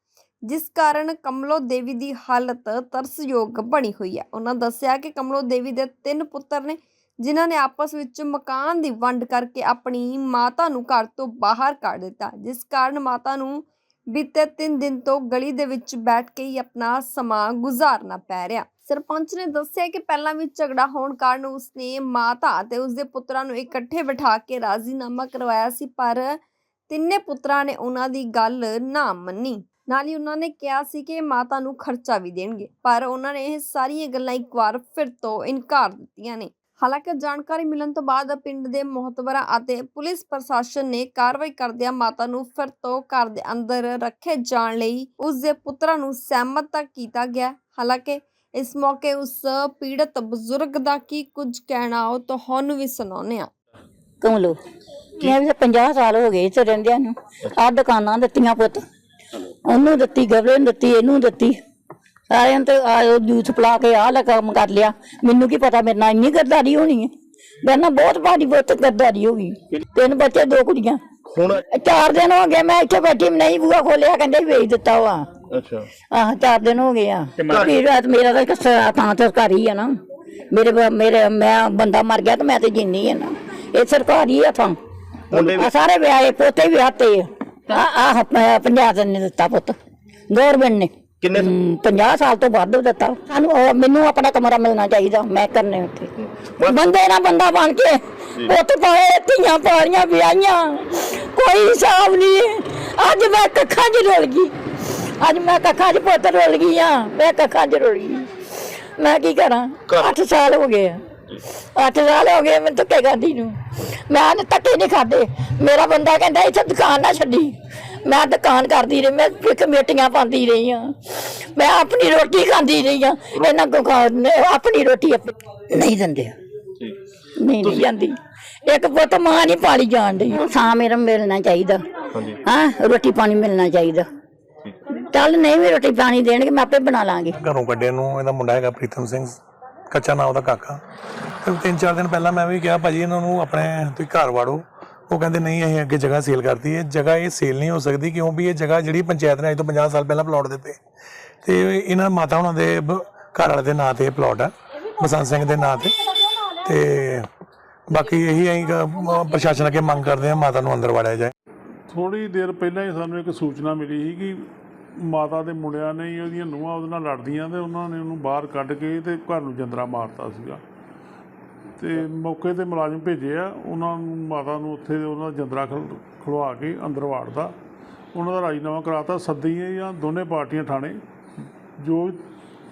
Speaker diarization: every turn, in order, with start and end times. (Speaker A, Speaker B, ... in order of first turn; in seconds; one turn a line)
Speaker A: 0.5-13.6
Speaker A: 14.1-26.3
Speaker A: 26.9-53.5
Speaker B: 54.2-54.6
Speaker B: 55.2-58.8
Speaker B: 59.4-61.6
Speaker B: 62.3-67.1
Speaker B: 67.6-71.0
Speaker C: 71.2-71.6
Speaker B: 71.7-75.3
Speaker C: 75.5-75.9
Speaker B: 76.1-80.0
Speaker C: 77.4-77.7
Speaker B: 80.5-84.8
Speaker C: 85.3-85.7
Speaker B: 85.3-89.7
Speaker B: 90.3-96.1
Speaker C: 91.2-91.5
Speaker C: 96.2-96.8
Speaker B: 96.6-111.0
Speaker B: 111.6-126.3
Speaker B: 127.4-131.8
Speaker B: 132.4-134.1
Speaker B: 134.9-137.4
Speaker D: 137.4-139.4
Speaker D: 139.9-140.8
Speaker D: 141.4-150.8
Speaker D: 151.4-157.3
Speaker D: 157.9-161.3
Speaker E: 161.9-164.4
Speaker E: 165.0-170.6
Speaker E: 171.8-177.5
Speaker E: 178.1-181.0
Speaker E: 181.8-182.2